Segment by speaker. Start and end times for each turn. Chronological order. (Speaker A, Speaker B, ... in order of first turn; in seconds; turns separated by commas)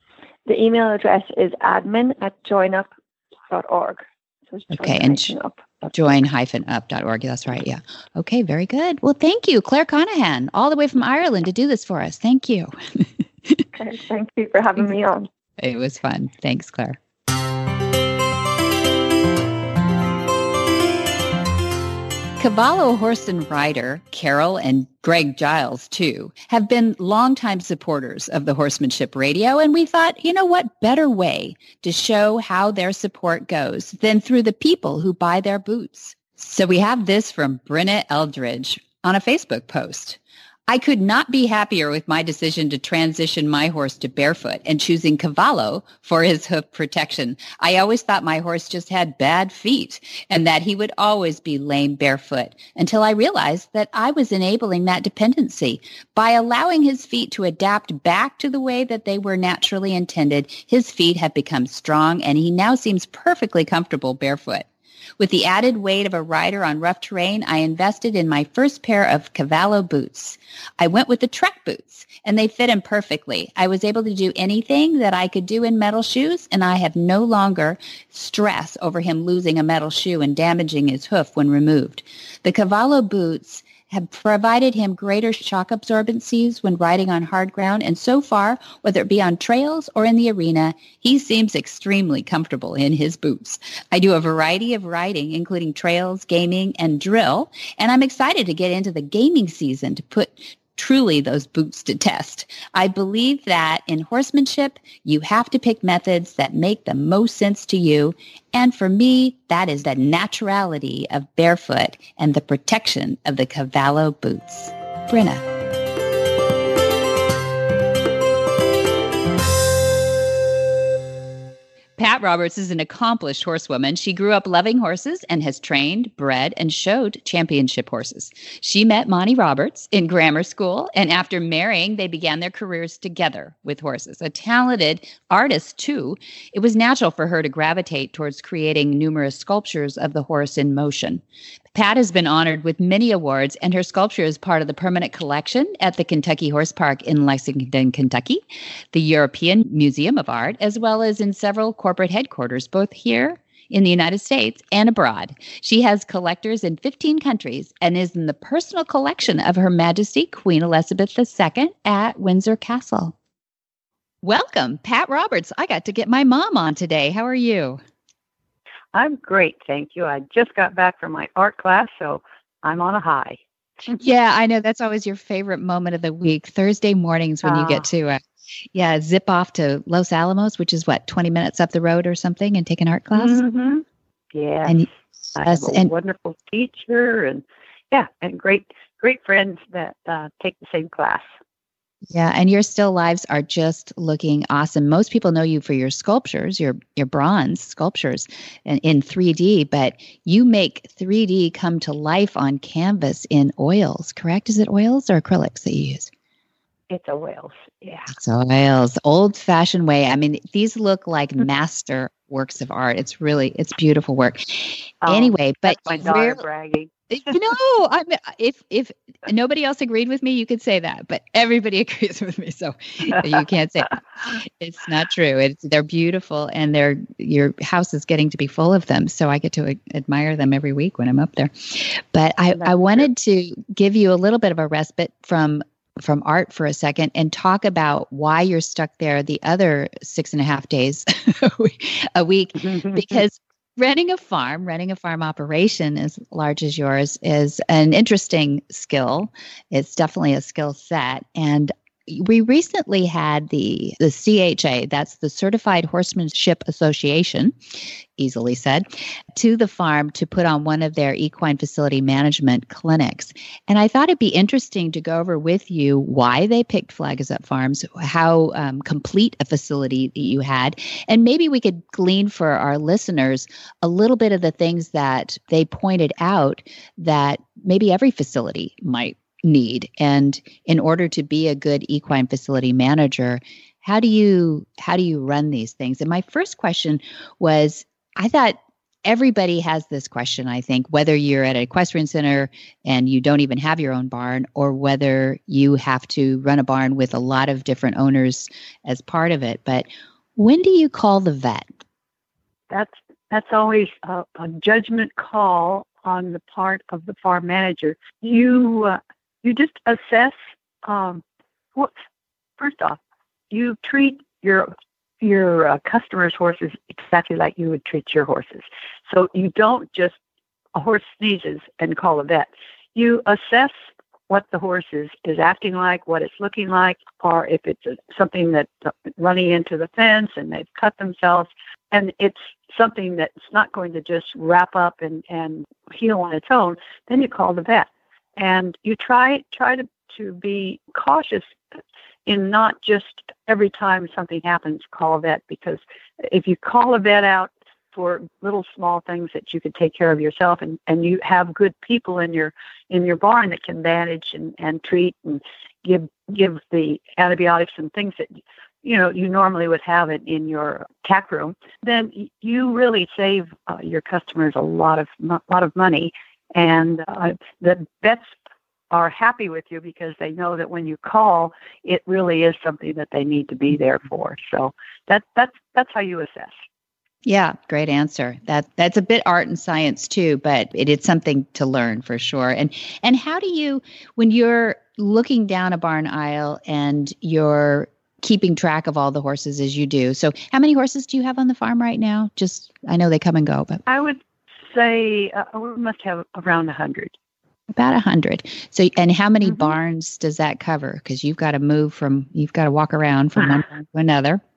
Speaker A: 0.5-2.9, Speaker A: 3.5-5.9, Speaker B: 4.7-5.3, Speaker B: 5.9-13.6, Speaker A: 13.7-15.3, Speaker B: 15.6-17.0, Speaker B: 22.4-64.7, Speaker B: 65.2-115.4, Speaker B: 122.0-141.2, Speaker B: 141.7-163.1, Speaker B: 164.2-167.8, Speaker C: 168.9-174.0, Speaker B: 174.0-178.2, Speaker C: 177.4-177.9, Speaker B: 178.7-183.4, Speaker C: 183.1-191.3, Speaker B: 185.4-185.9, Speaker B: 192.1-206.1, Speaker C: 206.9-208.1, Speaker B: 208.1-216.4, Speaker C: 215.0-216.9, Speaker B: 217.1-257.5, Speaker C: 232.6-232.8, Speaker C: 242.7-243.0, Speaker B: 258.2-301.7, Speaker C: 302.7-311.2, Speaker C: 312.6-313.0, Speaker C: 313.5-320.1, Speaker C: 320.7-323.7, Speaker C: 324.3-341.5, Speaker C: 342.2-368.3, Speaker C: 368.9-376.6, Speaker B: 377.2-393.8, Speaker C: 393.9-397.1, Speaker B: 397.7-404.4